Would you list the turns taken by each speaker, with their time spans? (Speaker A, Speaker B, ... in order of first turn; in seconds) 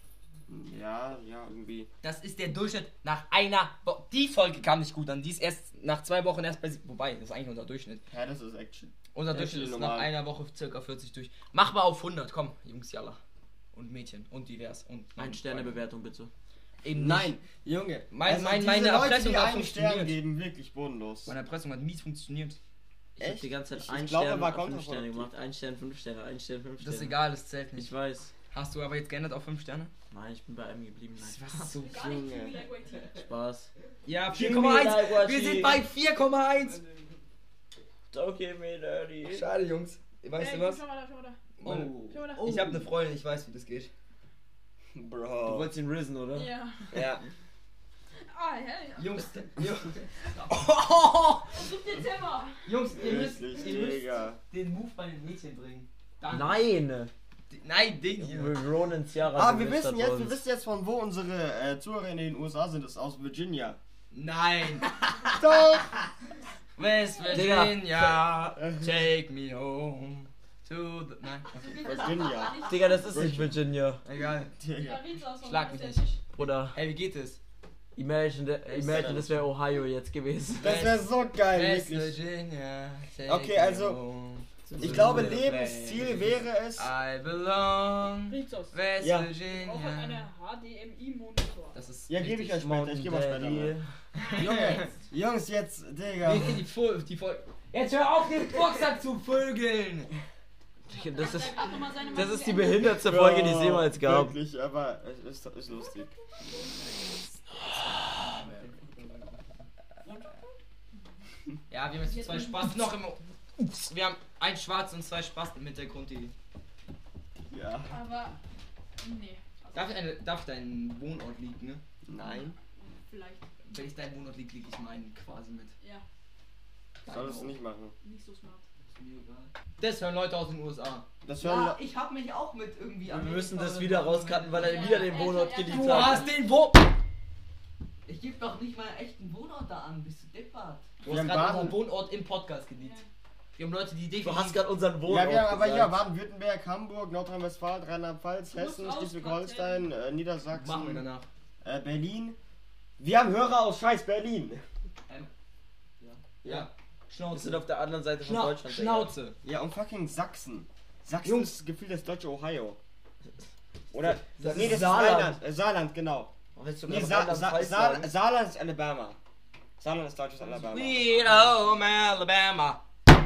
Speaker A: 0.5-1.9, 8.1-10.1, 16.9-21.4, 23.2-25.3, 31.9-32.6, 45.0-45.7, 46.9-47.3, 53.0-54.4, 59.3-63.8, 65.3-65.9, 71.8-73.6, 74.6-75.2, 80.6-82.2, 83.3-84.0, 84.8-86.9, 89.0-89.3, 92.1-93.8, 94.3-96.6, 103.0-106.1, 117.5-118.0, 122.1-122.5, 127.1-128.0, 131.2-131.8, 141.0-141.8, 145.0-151.1, 151.6-152.4, 153.0-154.6, 156.4-156.7, 159.4-162.8, 163.9-166.3, 166.9-169.2, 169.8-171.2
Speaker B: 2.0-8.0, 9.1-13.2, 13.7-15.8, 16.8-17.4, 18.1-20.1, 21.3-22.6, 26.8-27.9, 28.5-29.9, 31.2-32.0, 34.0-36.8, 39.2-40.8, 41.6-43.9, 49.0-51.6, 52.7-56.6, 57.5-58.6, 64.1-65.0, 66.8-71.9, 74.0-74.5, 75.4-76.1, 76.7-77.4, 78.6-79.4, 80.6-90.3, 91.7-92.6, 94.2-94.9, 96.2-100.1, 111.7-116.3, 119.7-121.8, 123.7-125.7, 127.0-127.6, 129.8-131.1, 132.8-136.9, 141.0-143.0, 143.6-144.6, 150.5-151.3, 156.4-157.7, 158.2-159.4, 161.2-161.5, 164.4-165.2, 170.6-172.8
Speaker C: 15.2-16.3, 23.2-27.2, 27.8-28.3, 30.1-31.7, 33.1-33.7, 34.3-35.8, 38.1-39.5, 41.6-42.8, 45.5-46.6, 56.3-57.1, 58.2-60.4, 67.3-67.8, 72.6-74.0, 76.4-76.8, 78.0-80.8, 84.7-85.6, 92.6-93.9, 100.9-104.3, 133.1-136.3, 144.2-146.0, 157.3-159.1, 164.0-165.4, 166.6-168.1
Speaker D: 31.8-33.3, 40.4-41.4, 42.1-42.5, 46.3-46.9, 48.2-49.3, 51.5-52.7, 71.5-73.3, 74.8-76.2, 88.3-88.8, 89.5-91.8, 94.2-94.9, 100.9-103.0, 112.0-112.8, 117.9-118.4, 119.0-119.9, 122.2-123.5, 128.0-128.7, 134.6-136.4, 142.8-143.1, 148.5-149.9
Speaker E: 101.6-102.2, 108.2-109.7, 128.9-129.5, 131.4-133.1, 134.5-134.9, 138.1-140.9